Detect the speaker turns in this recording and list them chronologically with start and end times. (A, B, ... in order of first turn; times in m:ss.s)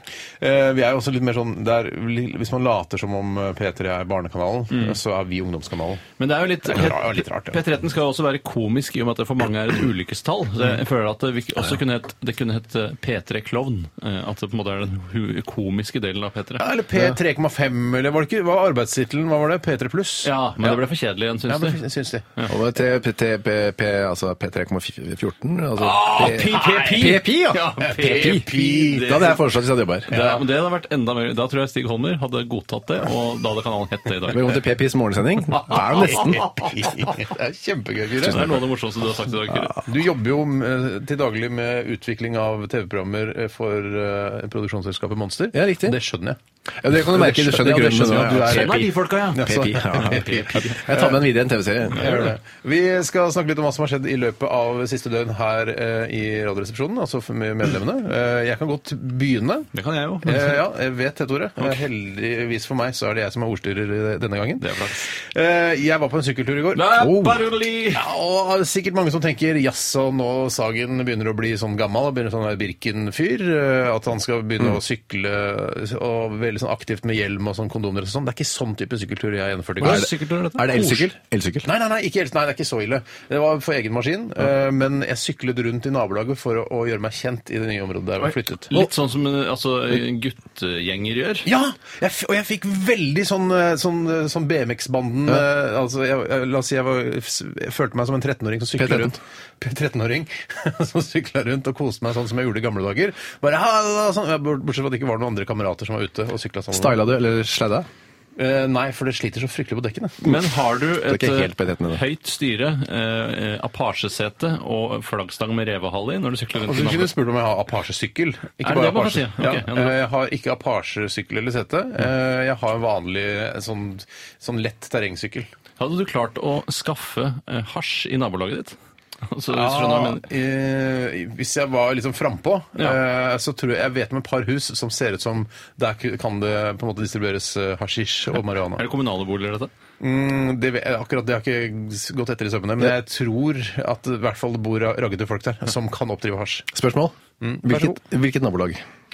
0:00.4-0:06.0 A
0:04.7-0:05.0 B
0:06.2-0:16.6 B
0:06.7-0:07.6 A
0:16.6-0:20.8 A
0:20.2-0:21.8 B
0:21.5-0:22.3 A
0:22.5-0:30.1 C
0:25.8-0:29.4 B
0:26.2-0:27.0 A
0:27.9-0:29.4 A
0:30.1-0:34.6 B
0:30.1-0:30.4 A
0:34.3-0:36.4 C
0:35.7-0:38.6 A
0:38.2-0:38.6 C
0:38.2-0:39.8 B
0:39.8-0:46.4 A
0:45.5-0:46.0 C
0:46.8-0:52.3 C
0:47.0-0:51.2 A
0:48.3-0:50.8 B
0:51.9-0:59.7 A
0:52.0-0:52.3 B
0:59.7-1:00.6 B
1:00.2-1:06.9 A
1:04.6-1:05.1 B
1:06.7-1:08.0 B
1:07.0-1:07.4 C
1:07.9-1:20.1 A
1:19.8-1:21.1 B
1:19.8-1:21.7 C
1:21.6-1:28.8 A
1:28.7-1:31.5 B
1:31.4-1:47.0 A
1:38.8-1:39.2 C
1:46.7-1:47.9 C
1:48.4-1:50.2 A
1:50.2-1:57.1 B
1:51.0-1:52.0 C
1:56.6-2:05.5 A
1:58.6-2:00.0 B
2:05.8-2:10.2 B
2:09.5-2:18.8 A
2:18.8-2:19.7 B
2:20.0-2:26.7 A
2:26.7-2:28.8 C
2:27.4-2:28.0 A